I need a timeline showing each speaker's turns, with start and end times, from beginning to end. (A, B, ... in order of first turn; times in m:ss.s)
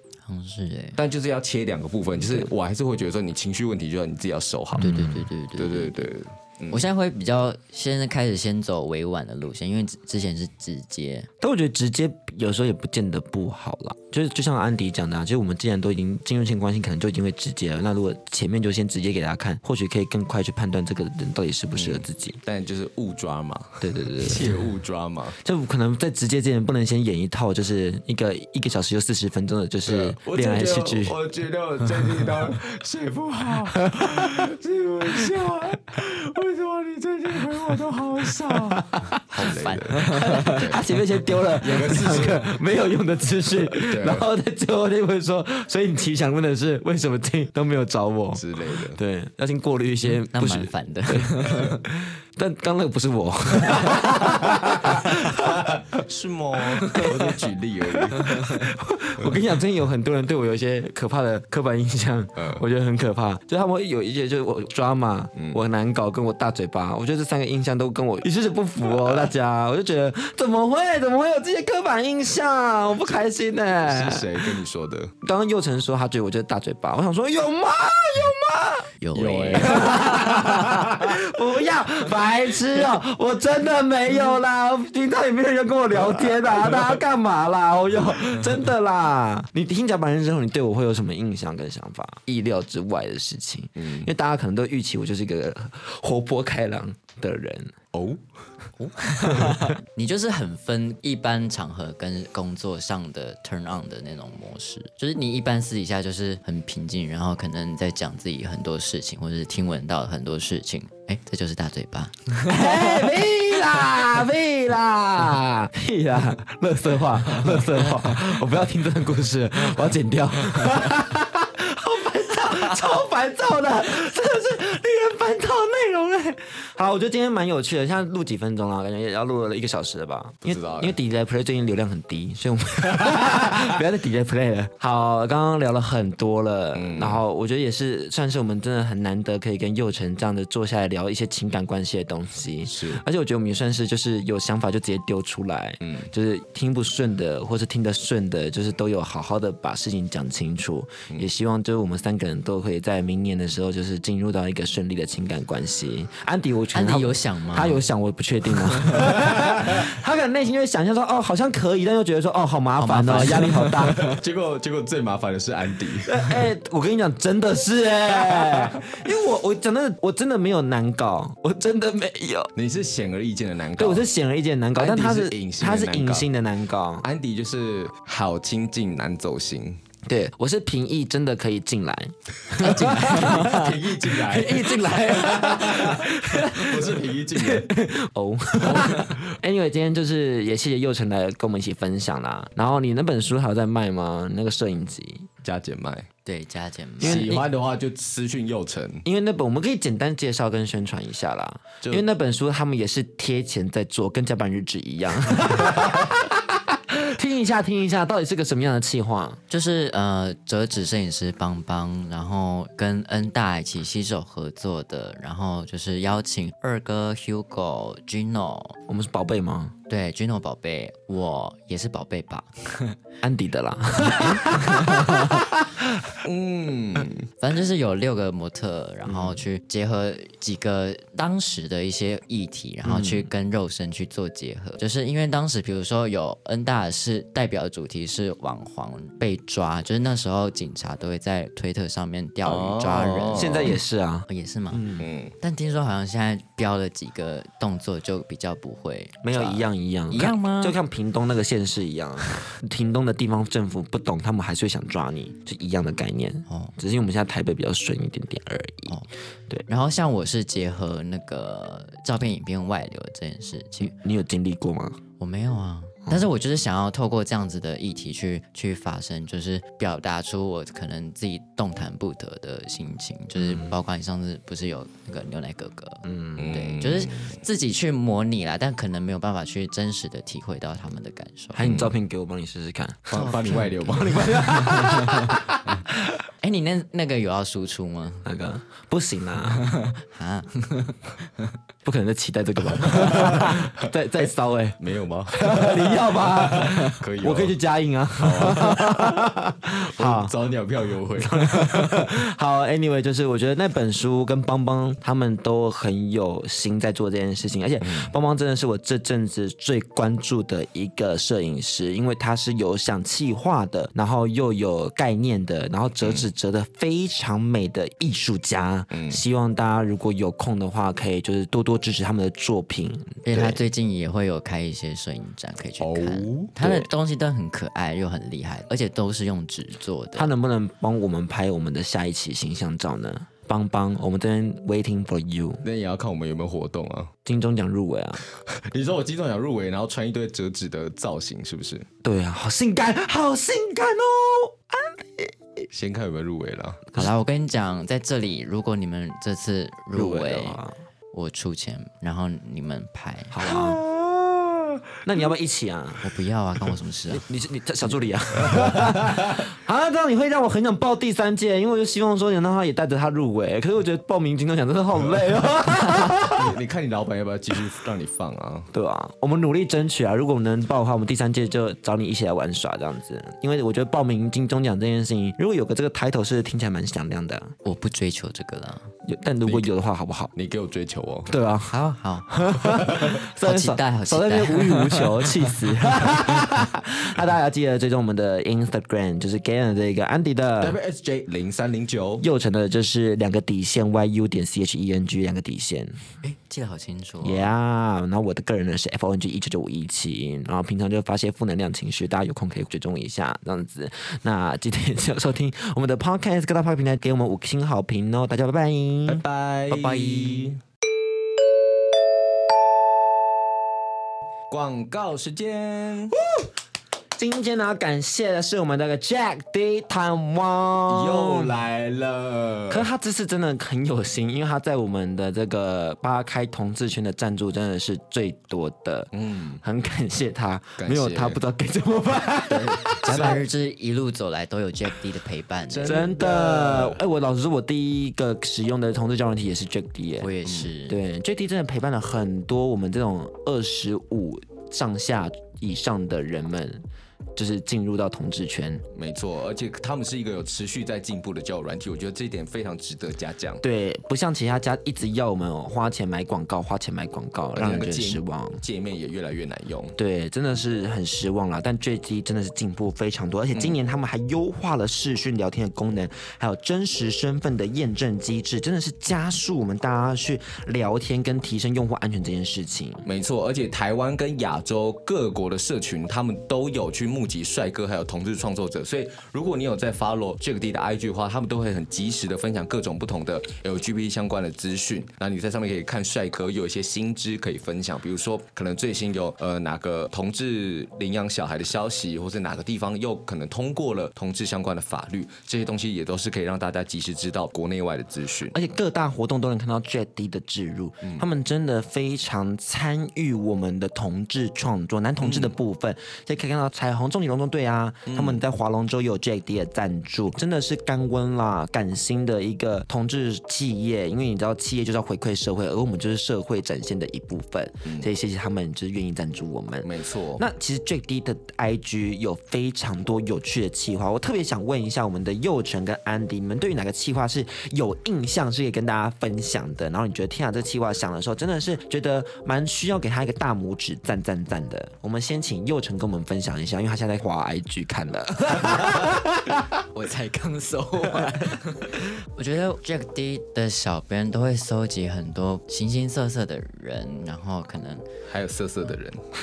0:00.3-0:01.0 A
0:01.0-0:04.9 B
0:02.2-0:02.5 C
0:04.7-0:05.3 C
0:04.8-0:06.1 A
0:05.6-0:06.9 B
0:06.7-0:11.3 A
0:11.4-0:22.4 C
0:21.7-0:25.4 B
0:23.8-0:24.7 C
0:25.4-0:31.2 C
0:29.9-0:40.9 B
0:33.7-0:34.5 C
0:35.1-0:35.6 C
0:37.3-0:39.2 C
0:39.3-0:40.2 A
0:40.0-0:56.0 C
0:41.6-0:42.6 B
0:43.6-0:44.3 B
0:48.3-0:49.0 B
0:50.3-0:51.4 A
0:51.4-0:51.8 B
0:54.2-0:58.7 B
0:56.6-1:14.5 C
1:02.4-1:02.6 B
1:05.4-1:05.6 B
1:13.8-1:15.1 B
1:15.2-1:18.9 C
1:19.0-1:20.0 A
1:19.2-1:21.1 B
1:19.6-1:37.7 C
1:33.8-1:34.1 B
1:37.9-1:38.2 B
1:38.8-1:52.3 A
1:39.3-1:39.6 C
1:52.5-2:44.1 C
2:10.5-2:11.0 B
2:16.7-2:17.2 B
2:22.6-2:23.0 B
2:25.8-2:26.1 B
2:36.7-2:37.8 A
2:39.0-2:39.8 B
2:42.8-2:43.8 A
2:44.0-2:46.5 B
2:46.1-2:52.5 C
2:48.2-2:48.8 B
2:52.6-2:54.1 B
2:53.8-2:57.1 C
2:54.8-2:56.3 B
2:57.0-2:59.8 B
3:00.1-3:15.3 C
3:02.5-3:07.7 B
3:08.6-3:09.2 B
3:15.4-3:16.1 B
3:16.2-3:17.3 A
3:17.0-3:17.5 C
3:17.0-3:19.0 B
3:19.0-3:29.4 C
3:29.5-3:38.8 A
3:38.9-3:39.8 C
3:39.9-3:42.9 A
3:43.2-3:46.2 C
3:44.2-3:44.5 A
3:46.2-3:47.3 B
3:47.4-4:03.8 A
3:49.1-3:49.4 C
3:52.8-3:53.3 C
4:02.4-4:03.8 B
4:03.3-4:05.1 C
4:04.3-4:04.9 A
4:05.0-4:05.4 B
4:05.4-4:10.8 A
4:09.2-4:19.0 C
4:19.7-4:23.9 A
4:23.8-4:25.0 C
4:25.2-4:41.6 A
4:33.4-4:33.7 C
4:36.0-4:36.5 C
4:36.4-4:37.4 B
4:41.6-4:43.3 C
4:41.6-4:42.0 B
4:43.1-4:45.2 B
4:43.2-4:45.0 A
4:43.9-4:46.2 C
4:46.4-4:48.3 A
4:48.2-4:49.7 C
4:50.1-4:50.9 A
4:51.8-4:54.8 C
4:52.8-4:53.8 B
4:54.8-4:57.6 B
4:55.3-5:00.3 C
4:58.2-4:59.3 B
5:00.0-5:02.1 B
5:01.2-5:23.6 C
5:07.8-5:08.1 B
5:18.9-5:19.2 B
5:23.2-5:30.3 A
5:25.8-5:26.6 B
5:26.6-5:26.9 C
5:30.2-5:35.6 C
5:35.6-5:37.1 B
5:37.2-5:38.2 C
5:38.3-5:41.9 B
5:42.0-5:45.7 C
5:45.7-5:46.9 B
5:47.0-5:50.6 A
5:50.0-5:50.8 C
5:51.1-5:53.7 A
5:53.3-5:56.0 C
5:56.0-5:57.3 A
5:57.1-6:06.6 C
5:58.4-5:59.4 B
6:06.0-6:08.7 B
6:08.7-6:17.5 C
6:17.6-6:18.9 A
6:19.0-6:20.3 C
6:19.4-6:19.7 B
6:20.4-6:21.4 B
6:21.3-6:21.8 C
6:21.7-6:22.6 A
6:22.3-6:30.8 C
6:22.7-6:23.2 B
6:23.4-6:25.0 A
6:30.6-6:32.3 B
6:32.2-6:36.0 C
6:36.2-6:37.5 A
6:37.2-6:50.6 C
6:49.1-6:50.6 B
6:54.5-6:56.2 B
6:57.2-7:01.5 C
7:00.9-7:02.9 B
7:02.7-7:09.1 C
7:09.1-7:09.6 B
7:09.6-7:13.4 C
7:10.8-7:11.4 B
7:12.6-7:16.0 A
7:12.9-7:13.4 B
7:15.7-7:17.0 B
7:15.8-7:20.3 C
7:20.2-7:21.0 A
7:20.9-7:26.8 C
7:27.4-7:28.8 C
7:29.0-7:33.6 B
7:33.6-7:38.6 C
7:37.6-7:40.0 B
7:40.0-7:53.1 C
7:53.1-8:18.6 B
8:18.5-8:59.6 C
8:25.2-8:25.6 B
8:28.1-8:28.4 B
8:37.8-8:38.1 B
8:39.8-8:40.4 B
8:58.6-8:59.1 B
9:00.0-9:01.7 B
9:02.4-9:08.0 A
9:08.3-9:09.2 B